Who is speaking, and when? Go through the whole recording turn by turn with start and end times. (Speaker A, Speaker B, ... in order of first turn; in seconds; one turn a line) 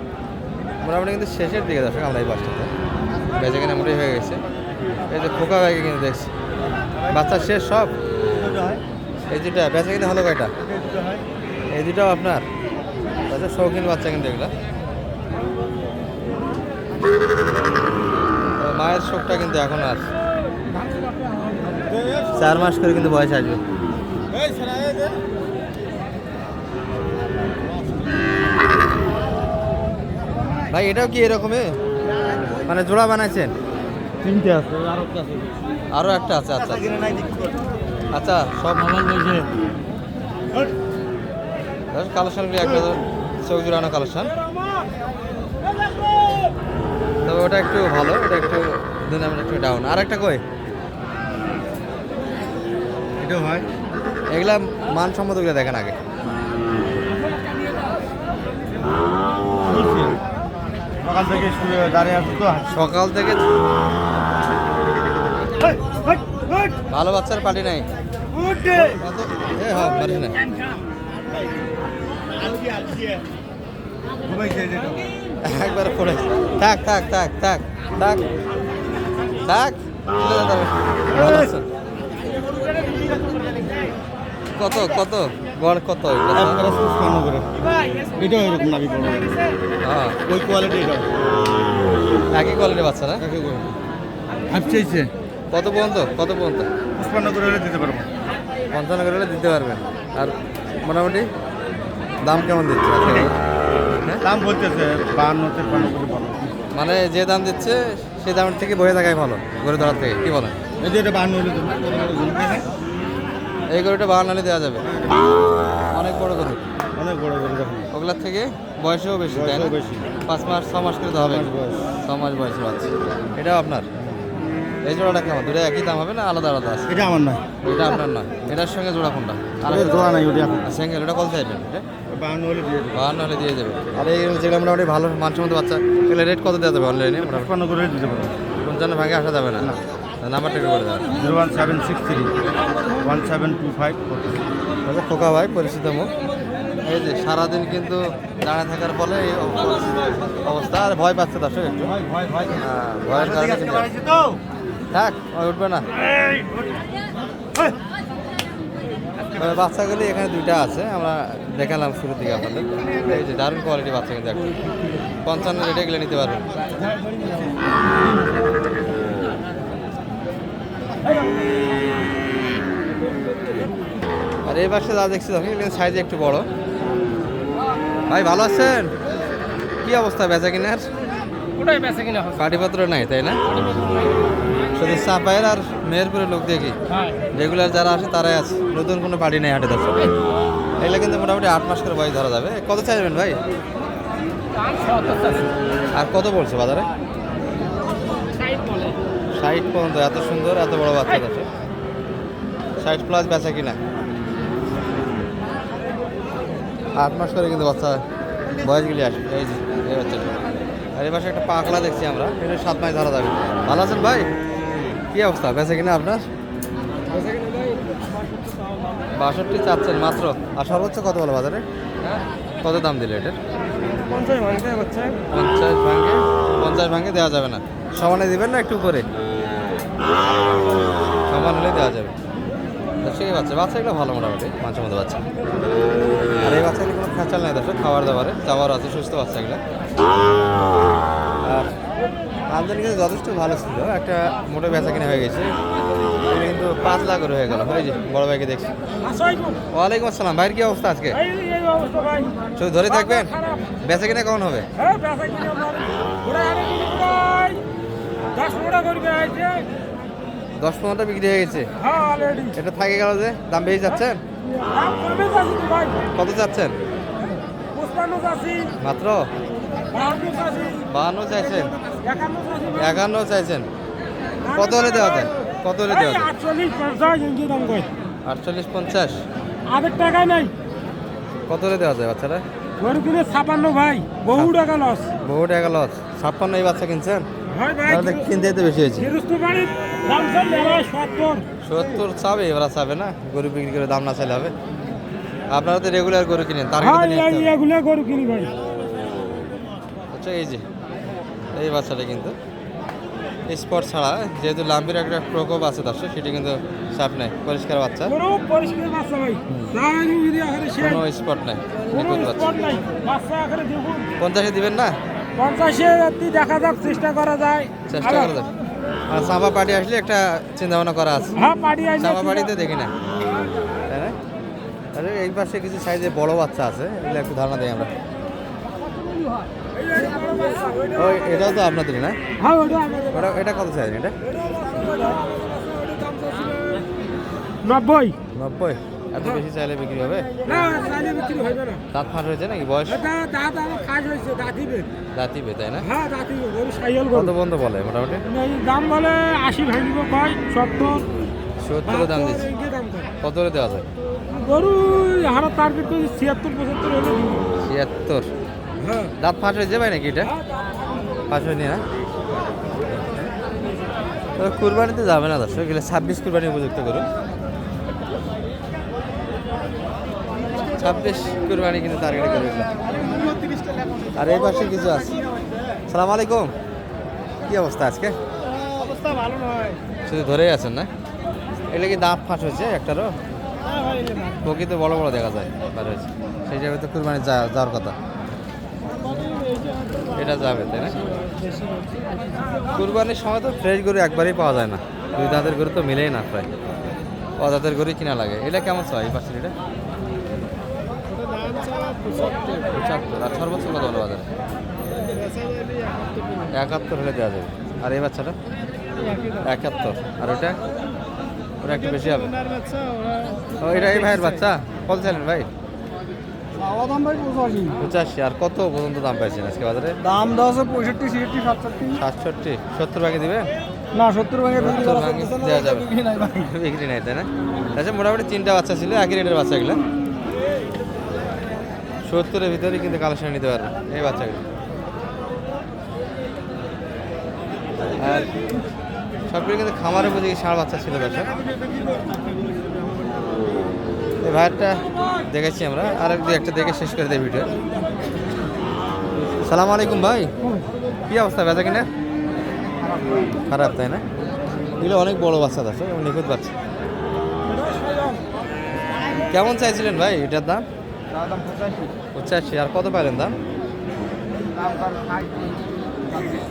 Speaker A: 0.8-2.7
Speaker A: 3.4-4.4
Speaker A: 5.1-6.3
Speaker A: 7.1-7.9
Speaker B: 8.3-8.8
Speaker A: 9.3-10.5
Speaker B: 10.6-11.2
Speaker A: 11.7-12.5
Speaker A: 13.3-14.5
Speaker A: 18.6-20.1
Speaker B: 21.8-22.3
Speaker A: 22.4-23.6
Speaker B: 24.3-25.1
Speaker A: 30.7-31.7
Speaker A: 32.6-33.5
Speaker B: 34.2-35.5
Speaker A: 35.9-36.9
Speaker B: 36.7-37.5
Speaker A: 38.1-39.4
Speaker A: 41.9-44.3
Speaker A: 47.3-50.4
Speaker B: 53.2-53.6
Speaker A: 54.3-56.0
Speaker B: 59.6-60.2
Speaker B: 61.0-62.7
Speaker A: 62.7-63.5
Speaker B: 65.6-66.7
Speaker A: 66.9-67.9
Speaker B: 68.3-69.0
Speaker A: 68.8-70.4
Speaker B: 72.7-73.1
Speaker B: 74.2-75.0
Speaker A: 75.4-78.2
Speaker A: 79.4-81.7
Speaker B: 81.1-81.5
Speaker A: 84.5-86.6
Speaker B: 86.3-89.4
Speaker A: 89.8-90.2
Speaker B: 90.2-91.1
Speaker A: 92.3-93.2
Speaker B: 93.2-93.7
Speaker B: 94.5-95.1
Speaker A: 95.5-96.7
Speaker B: 97.0-98.1
Speaker A: 98.7-100.3
Speaker A: 100.8-101.3
Speaker A: 102.2-103.3
Speaker B: 104.2-106.5
Speaker A: 106.8-110.5
Speaker B: 110.8-112.7
Speaker A: 113.7-114.8
Speaker A: 115.9-116.6
Speaker B: 116.9-117.9
Speaker A: 117.9-119.7
Speaker B: 119.3-120.0
Speaker A: 120.3-121.5
Speaker B: 121.2-121.8
Speaker A: 122.0-123.9
Speaker A: 124.9-126.9
Speaker B: 126.9-127.5
Speaker A: 127.6-131.8
Speaker B: 129.7-130.7
Speaker B: 132.1-133.0
Speaker A: 132.9-137.5
Speaker B: 137.3-138.4
Speaker A: 138.6-141.1
Speaker B: 141.2-142.3
Speaker B: 142.9-144.4
Speaker A: 144.9-146.1
Speaker A: 146.8-151.9
Speaker B: 151.9-154.4
Speaker A: 152.6-153.9
Speaker A: 154.9-155.9
Speaker B: 156.2-156.6
Speaker A: 159.3-164.6
Speaker A: 165.2-166.5
Speaker A: 174.5-176.5
Speaker A: 178.1-178.9
Speaker A: 179.8-180.9
Speaker C: 181.6-182.2
Speaker A: 182.3-183.4
Speaker A: 184.8-186.8
Speaker A: 187.3-190.1
Speaker A: 190.8-193.4
Speaker C: 194.9-195.3
Speaker A: 195.9-196.9
Speaker C: 198.4-198.9
Speaker A: 199.4-201.5
Speaker A: 202.8-203.8
Speaker A: 207.0-210.3
Speaker A: 211.0-214.3
Speaker A: 215.1-216.2
Speaker C: 217.1-217.8
Speaker A: 219.1-221.6
Speaker A: 222.6-223.4
Speaker C: 223.9-225.2
Speaker A: 225.3-229.1
Speaker A: 231.3-232.1
Speaker A: 233.0-235.2
Speaker A: 236.4-239.6
Speaker A: 241.4-241.7
Speaker A: 242.5-245.5
Speaker A: 246.3-248.7
Speaker C: 249.0-249.6
Speaker A: 249.7-251.2
Speaker C: 251.1-253.8
Speaker A: 252.6-254.7
Speaker C: 254.8-257.6
Speaker C: 258.3-259.7
Speaker A: 260.6-261.7
Speaker C: 261.8-262.6
Speaker A: 262.5-264.2
Speaker C: 264.4-266.1
Speaker A: 266.1-266.8
Speaker C: 267.7-268.7
Speaker A: 268.8-269.3
Speaker C: 269.9-270.9
Speaker A: 270.9-271.7
Speaker C: 271.8-273.0
Speaker A: 272.7-273.7
Speaker C: 274.4-275.3
Speaker A: 274.5-276.3
Speaker C: 275.9-277.9
Speaker A: 278.2-279.2
Speaker C: 279.7-280.5
Speaker A: 281.5-282.4
Speaker C: 282.8-285.1
Speaker A: 285.2-287.3
Speaker C: 287.5-291.4
Speaker A: 287.9-289.1
Speaker A: 291.6-294.5
Speaker A: 295.5-297.6
Speaker C: 296.8-298.5
Speaker A: 300.1-300.6
Speaker A: 301.6-302.3
Speaker A: 303.5-308.1
Speaker C: 308.1-311.0
Speaker A: 309.5-309.8
Speaker A: 310.8-312.8
Speaker C: 311.9-314.1
Speaker A: 314.2-314.9
Speaker C: 315.4-318.3
Speaker A: 317.9-318.5
Speaker A: 319.1-321.4
Speaker C: 321.4-322.5
Speaker A: 322.0-322.9
Speaker A: 323.9-324.1
Speaker A: 324.9-327.9
Speaker C: 329.1-331.6
Speaker A: 330.9-332.2
Speaker C: 332.4-333.4
Speaker A: 333.1-334.1
Speaker C: 334.2-336.9
Speaker C: 337.6-338.2
Speaker A: 338.3-340.4
Speaker C: 340.4-341.8
Speaker A: 341.9-343.0
Speaker C: 342.9-344.9
Speaker A: 345.1-345.9
Speaker C: 345.8-347.3
Speaker A: 347.1-348.2
Speaker C: 348.3-351.1
Speaker A: 351.6-352.5
Speaker C: 351.9-353.1
Speaker A: 353.2-353.9
Speaker C: 354.3-357.5
Speaker A: 357.6-358.3
Speaker C: 358.8-359.1
Speaker A: 359.2-360.3
Speaker C: 360.3-360.6
Speaker A: 361.3-361.8
Speaker A: 364.4-367.1
Speaker A: 370.8-372.9
Speaker A: 374.1-375.2
Speaker A: 375.9-376.5
Speaker A: 377.4-378.1
Speaker A: 380.1-380.9
Speaker A: 381.7-383.1
Speaker C: 383.9-384.2
Speaker A: 384.4-387.9
Speaker A: 390.1-390.9
Speaker A: 392.7-396.5
Speaker A: 397.4-399.5
Speaker C: 402.1-402.5
Speaker A: 402.7-404.3
Speaker A: 406.5-408.4
Speaker A: 409.4-410.6
Speaker A: 411.6-412.4
Speaker A: 413.6-415.5
Speaker B: 416.7-417.8
Speaker A: 417.8-420.0
Speaker B: 420.1-421.9
Speaker A: 421.9-423.5
Speaker B: 423.9-424.6
Speaker A: 424.5-429.8
Speaker B: 425.9-426.3
Speaker A: 432.0-434.4
Speaker A: 437.9-438.3
Speaker A: 439.3-441.4
Speaker A: 444.2-447.5
Speaker A: 449.4-450.3
Speaker A: 451.1-451.9
Speaker A: 453.5-454.0
Speaker A: 454.8-456.5
Speaker C: 457.4-458.2
Speaker A: 459.3-460.6
Speaker B: 461.2-461.9
Speaker A: 462.1-463.4
Speaker B: 464.6-465.4